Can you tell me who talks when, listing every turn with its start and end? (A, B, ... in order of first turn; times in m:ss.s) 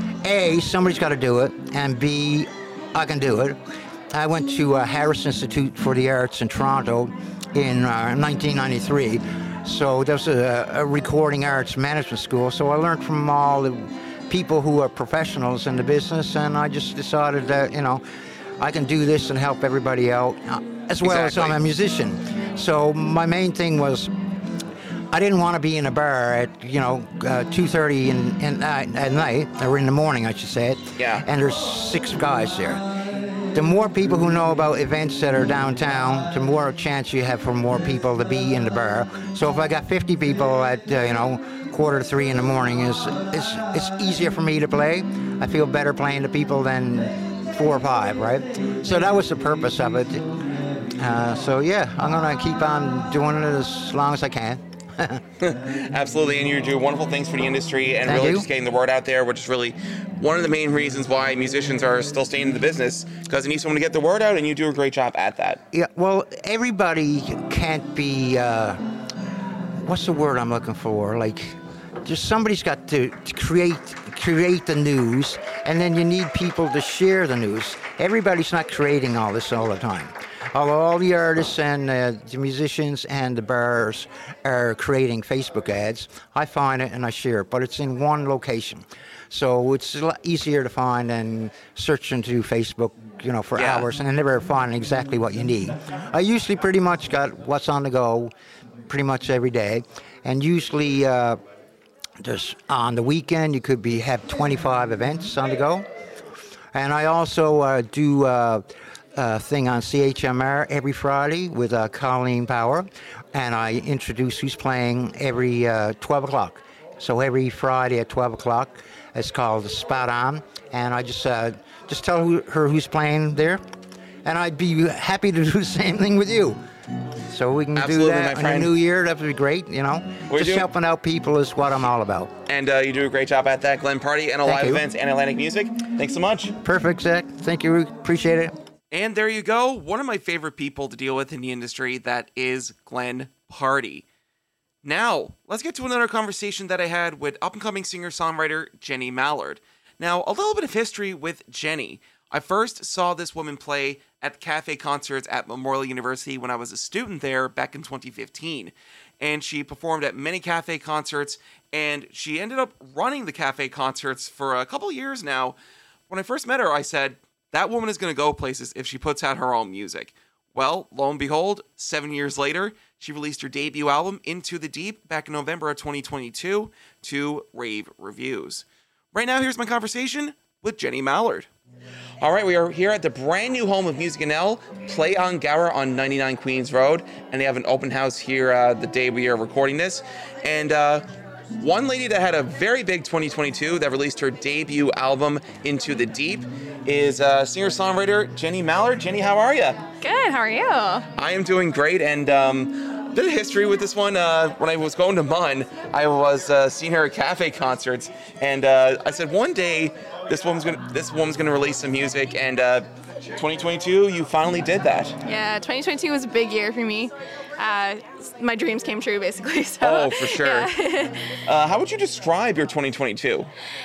0:00.2-0:18.0 A
0:18.6-0:24.1 A
0:21.0-0:21.6 B
0:25.1-0:32.8 A
0:31.0-0:31.2 B
0:33.5-0:50.3 A
0:51.0-0:55.2 A
0:55.4-1:05.6 B
0:58.0-0:58.4 A
1:05.7-1:08.8 A
1:09.8-1:38.3 A
1:33.6-1:33.9 B
1:38.9-1:41.4 A
1:42.2-1:45.9 A
1:46.7-2:03.6 A
2:04.2-2:06.6 A
2:07.2-2:12.3 A
2:07.8-2:08.7 B
2:10.3-2:10.7 B
2:12.5-2:16.5 B
2:14.4-2:14.8 A
2:16.6-2:18.5 A
2:18.9-2:24.0 B
2:24.8-2:45.6 B
2:46.1-3:01.5 B
3:02.2-3:11.0 B
3:11.6-3:19.8 B
3:20.0-3:21.0 C
3:21.2-3:35.2 B
3:35.2-3:41.1 C
3:39.8-3:40.7 B
3:41.4-3:43.5 B